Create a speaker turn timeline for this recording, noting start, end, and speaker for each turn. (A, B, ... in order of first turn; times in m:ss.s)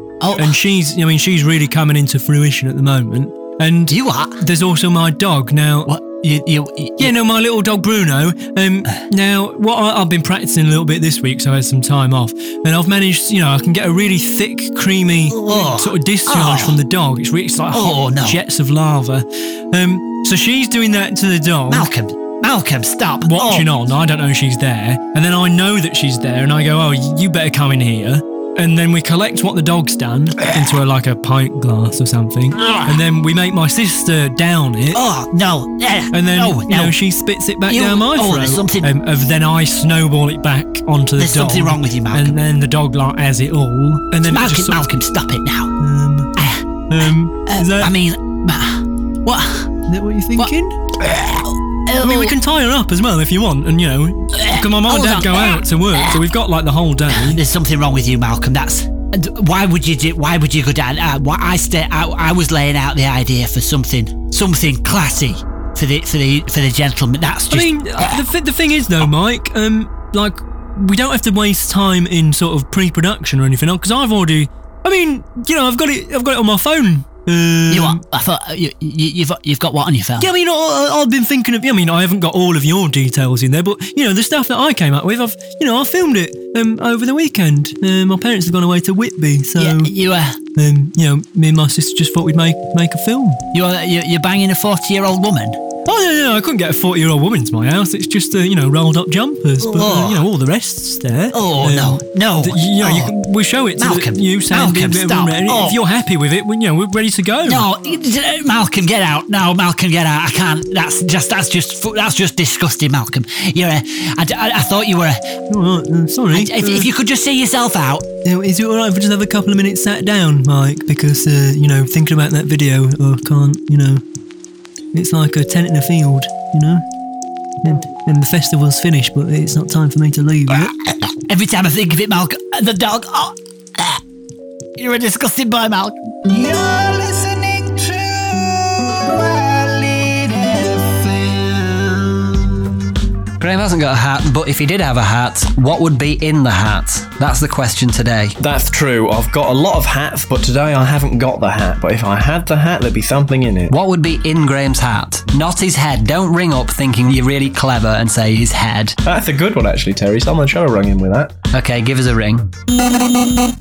0:00.2-0:00.6 A
0:00.4-0:05.9 B
0:03.9-0:04.4 A
0:05.8-0:07.1 A
0:07.0-0:21.9 B
0:15.3-0:16.8 A
0:17.7-0:18.4 A
0:21.7-0:23.7 A
0:23.2-0:35.0 B
0:32.6-0:33.0 A
0:34.9-0:37.0 A
0:36.1-0:44.9 B
0:37.6-0:39.0 A
0:41.2-0:42.4 A
0:44.2-0:45.7 A
0:45.8-0:46.4 B
0:46.4-0:46.6 A
0:46.9-0:48.0 B
0:47.4-0:49.7 A
0:49.9-0:50.8 B
0:50.4-0:52.3 A
0:52.0-0:57.4 B
0:54.3-0:56.2 A
0:57.1-1:08.3 A
1:07.5-1:18.0 B
1:17.7-1:20.3 A
1:20.2-1:29.9 B
1:29.6-1:30.4 A
1:30.5-1:33.4 B
1:33.5-1:35.6 A
1:35.8-1:47.7 B
1:39.6-1:40.3 A
1:41.3-1:43.2 A
1:43.7-1:45.8 A
1:47.4-1:55.3 A
1:55.5-1:56.9 B
1:56.3-1:58.0 A
1:58.2-2:04.0 B
2:04.9-2:06.8 B
2:07.6-2:10.7 B
2:11.3-2:14.0 A
2:14.8-2:16.0 A
2:16.3-2:22.4 C
2:23.4-2:28.4 D
2:28.4-2:33.7 E
2:33.7-2:39.0 D
2:39.0-2:41.3 E
2:41.5-2:42.5 D